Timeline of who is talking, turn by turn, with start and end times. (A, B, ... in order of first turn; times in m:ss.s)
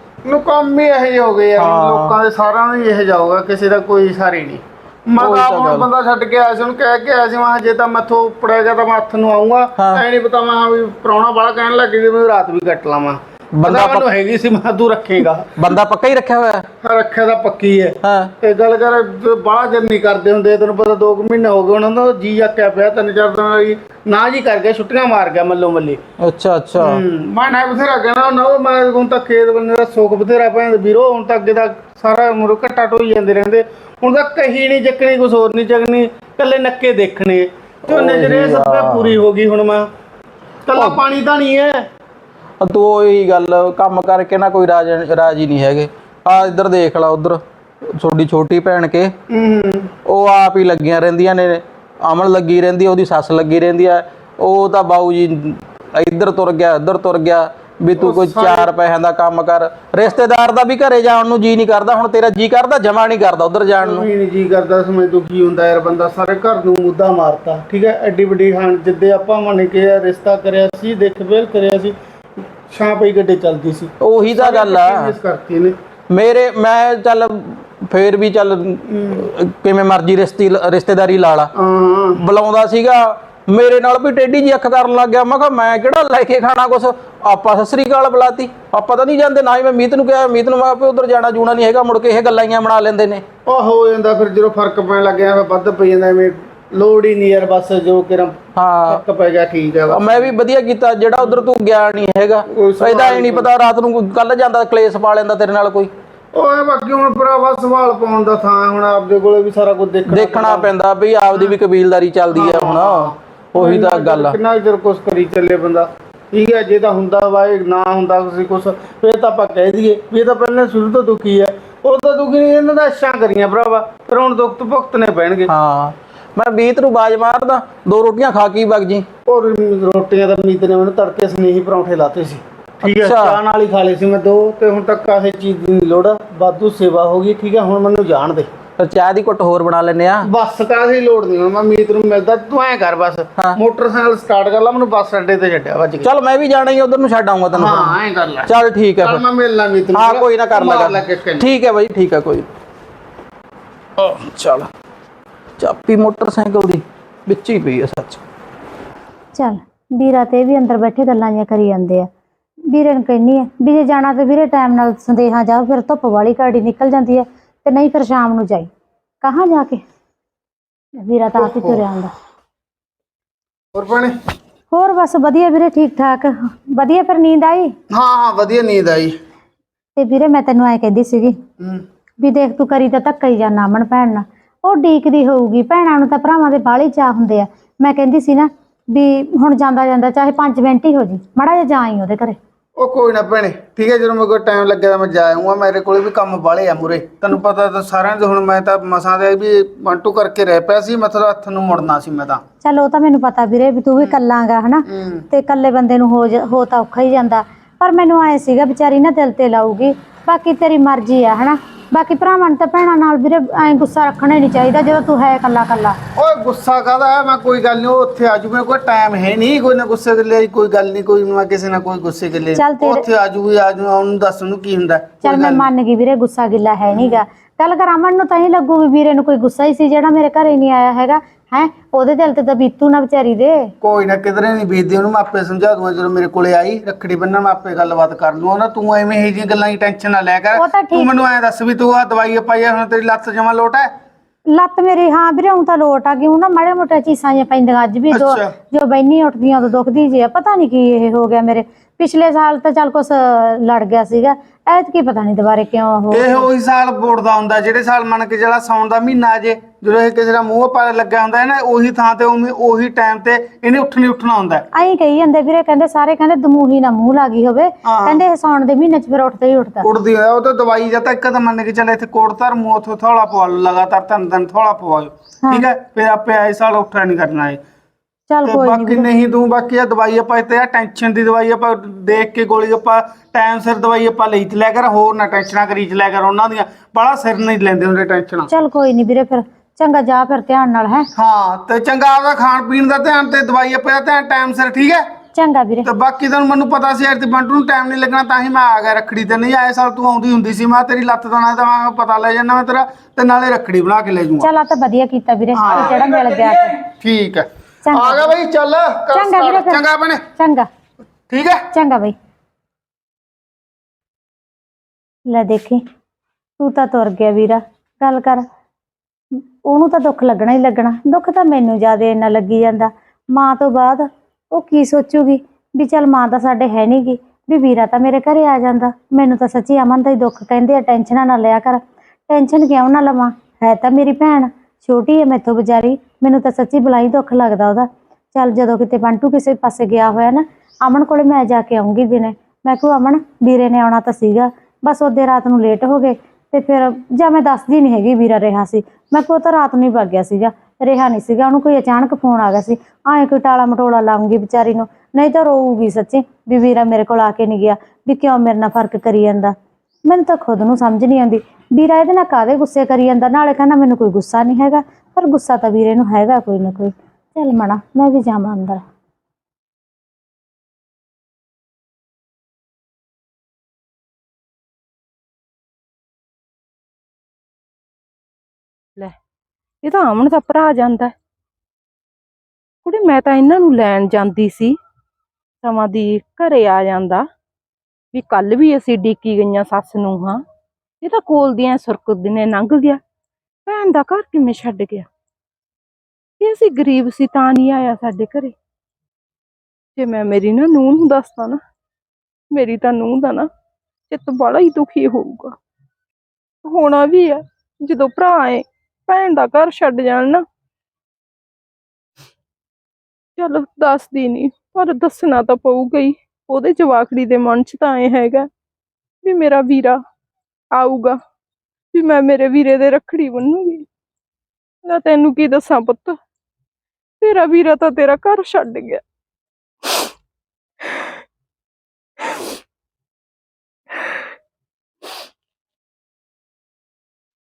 0:00.2-0:15.5 A
0:01.6-0:02.1 B
0:05.2-0:05.9 B
0:09.8-0:10.0 B
0:13.6-0:14.0 B
0:15.6-0:16.7 B
0:16.8-0:26.0 A
0:18.0-0:18.3 B
0:26.2-0:27.0 B
0:26.8-0:39.9 A
0:37.9-0:39.2 B
0:40.7-0:41.8 A
0:42.6-0:47.4 B
0:48.0-0:49.1 B
0:49.3-0:49.9 A
0:50.1-1:04.1 B
0:58.0-0:58.7 A
1:03.7-1:12.0 A
1:12.7-1:15.8 A
1:14.0-1:15.1 B
1:16.1-1:21.5 B
1:18.9-1:19.3 A
1:21.6-1:22.2 A
1:22.2-1:33.2 B
1:33.5-1:40.3 A
1:38.6-1:39.0 B
1:39.9-1:45.9 B
1:42.5-1:43.5 A
1:46.3-1:50.7 A
1:50.1-1:54.4 B
1:52.3-2:05.5 A
2:05.5-2:09.1 B
2:09.3-2:18.5 A
2:12.8-2:13.4 B
2:18.8-2:20.3 B
2:20.2-2:26.1 A
2:26.0-2:27.9 B
2:27.5-2:31.5 A
2:28.5-2:29.2 B
2:30.0-2:32.5 B
2:34.0-2:34.7 B
2:35.6-2:38.2 B
2:39.3-2:42.1 C
2:42.7-2:48.7 C
2:49.2-2:49.8 C
2:51.0-2:52.1 C
2:51.4-2:51.8 A
2:53.7-2:54.2 A
2:54.7-2:57.8 C
2:57.9-2:59.2 A
3:00.0-3:01.4 C
3:01.6-3:01.8 A
3:02.2-3:12.4 C
3:12.8-3:22.4 A
3:22.6-3:36.0 C
3:24.9-3:25.2 A
3:36.2-3:45.7 A
3:42.6-3:43.0 C
3:45.2-3:53.7 C
3:46.9-3:47.2 A
3:53.8-4:03.9 A
4:00.6-4:01.1 C
4:04.5-4:16.4 C
4:08.1-4:08.5 A
4:16.1-4:24.7 A
4:24.7-4:29.8 C
4:27.8-4:28.2 A
4:29.8-4:37.6 A
4:38.3-4:39.1 C
4:38.4-4:48.5 A
4:48.5-4:51.1 C
4:51.2-4:55.1 A
4:55.4-4:55.9 C
4:55.8-5:04.5 A
5:04.4-5:06.7 C
5:05.5-5:06.0 A
5:05.7-5:06.8 B
5:06.9-5:10.2 A
5:07.9-5:08.3 C
5:09.1-5:09.8 C
5:10.4-5:10.7 C
5:11.3-5:11.7 A
5:11.7-5:12.2 C
5:15.3-5:15.8 C
5:16.6-5:18.5 C
5:19.6-6:08.8 C
6:19.8-6:21.1 D
6:22.8-6:24.8 D
6:25.6-6:27.3 D
6:28.1-6:30.4 D
6:31.0-6:33.0 D
6:33.7-6:35.1 D
6:36.4-6:38.6 D
6:40.0-6:41.6 D
6:42.5-6:43.5 D
6:44.1-6:45.6 D
6:46.6-6:50.4 D
6:53.4-6:58.5 D
6:59.2-7:00.0 D
7:00.7-7:01.2 D
7:01.9-7:03.9 D
7:04.8-7:06.2 D
7:07.2-7:09.0 D